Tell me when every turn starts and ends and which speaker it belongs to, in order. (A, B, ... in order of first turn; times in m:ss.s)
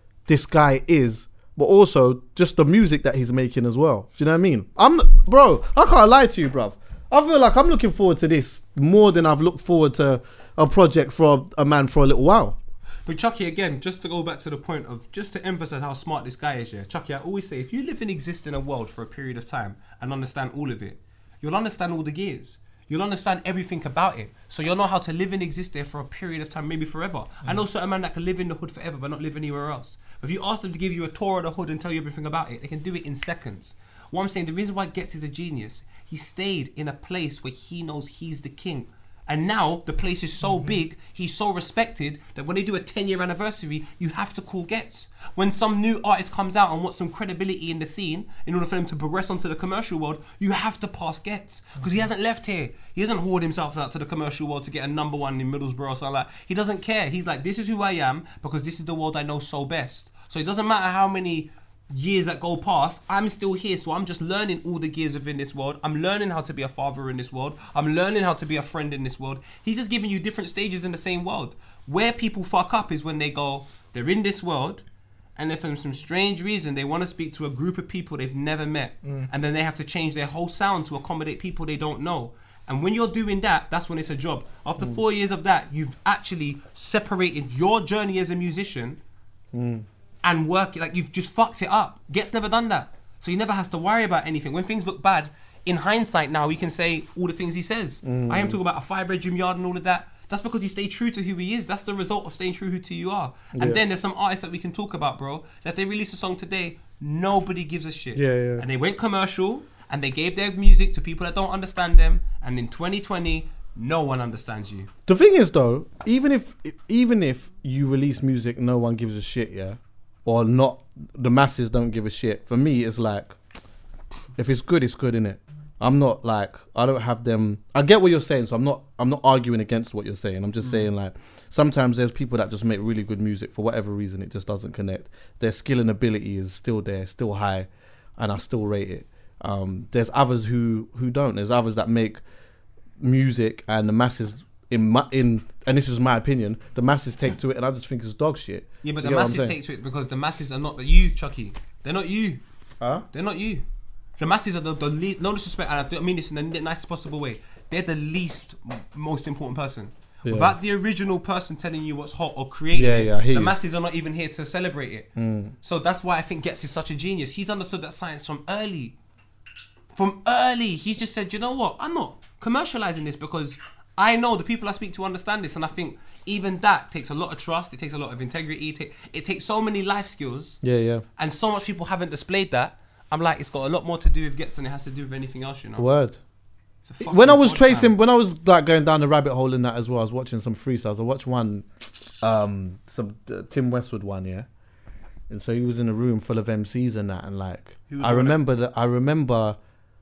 0:00.3-0:12.6 A
0:13.1-1:14.8 B
1:15.4-1:29.0 B
1:29.5-1:29.9 A
1:30.2-1:54.9 B
1:38.0-1:38.6 A
1:43.5-1:43.8 A
1:48.2-1:48.6 A
1:55.1-2:03.4 A
2:04.4-2:22.2 A
2:23.0-2:29.6 A
2:28.8-2:32.4 B
2:33.1-2:33.6 B
2:34.2-2:45.1 B
2:40.2-2:40.5 A
2:42.7-2:43.5 A
2:45.2-2:45.6 A
2:45.6-2:49.0 B
2:49.9-3:00.6 B
3:00.6-3:01.0 A
3:01.2-3:05.9 B
3:05.8-3:06.2 A
3:06.9-3:08.0 B
3:07.0-3:11.7 A
3:12.2-3:14.5 A
3:15.3-3:19.6 A
3:17.9-3:18.4 B